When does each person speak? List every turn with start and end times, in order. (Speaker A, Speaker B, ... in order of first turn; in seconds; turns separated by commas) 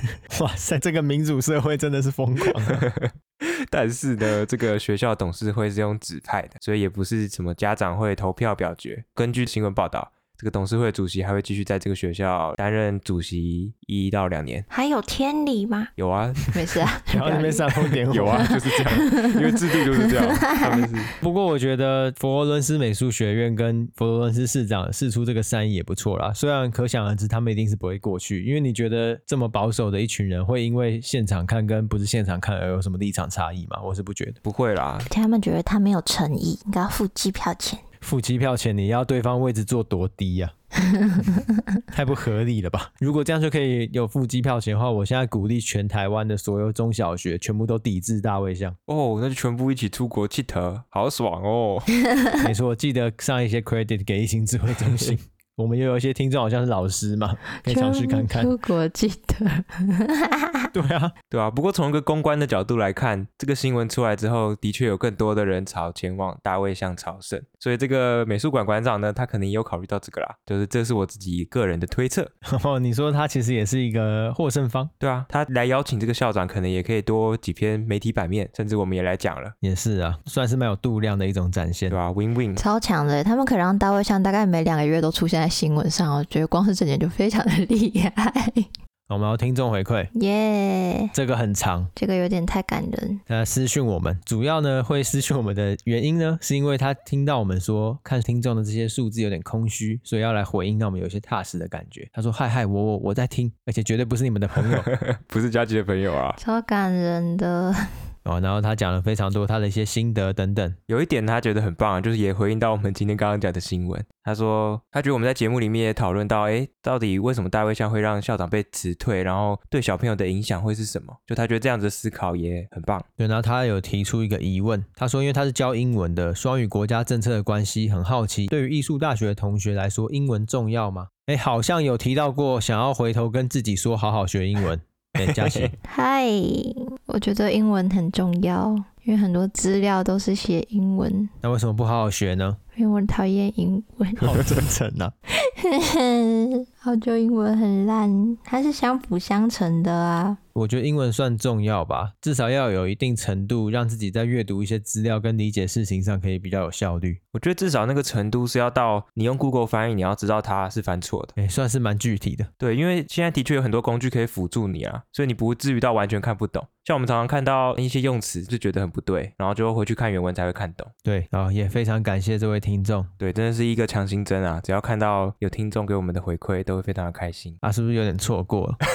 Speaker A: 0.3-2.9, Speaker B: 2.6-14.7, Speaker C: 14.7-15.9, Speaker B: 16.0-16.8, Speaker C: 16.5-20.9, Speaker A: 17.1-18.6, Speaker B: 18.1-21.1, Speaker A: 21.2-34.4, Speaker B: 34.4-35.1, Speaker C: 35.1-37.8, Speaker A: 38.0-40.5, Speaker A: 41.9-48.8, Speaker B: 48.9-51.9, Speaker A: 52.4-58.5, Speaker B: 54.8-55.1, Speaker C: 57.6-60.7, Speaker A: 60.7-61.1, Speaker B: 61.3-72.3, Speaker A: 72.4-74.9, Speaker B: 75.0-79.5, Speaker A: 79.6-82.0, Speaker B: 81.9-82.6, Speaker C: 82.6-88.7, Speaker A: 89.1-90.1, Speaker C: 90.1-91.1, Speaker A: 91.1-91.9, Speaker C: 92.0-93.2, Speaker A: 93.3-104.9, Speaker B: 104.6-106.4, Speaker C: 106.4-107.8, Speaker A: 108.2-110.8, Speaker B: 110.9-123.0, Speaker A: 123.2-135.7, Speaker B: 135.2-135.7, Speaker C: 135.9-141.3, Speaker A: 141.4-142.6, Speaker C: 142.8-144.4, Speaker A: 144.2-145.1, Speaker C: 145.4-150.4, Speaker A: 150.5-157.2, Speaker B: 157.3-161.3, Speaker A: 161.3-162.5, Speaker B: 162.6-170.9, Speaker A: 171.0-173.1, Speaker B: 173.2-177.6, Speaker A: 177.6-178.8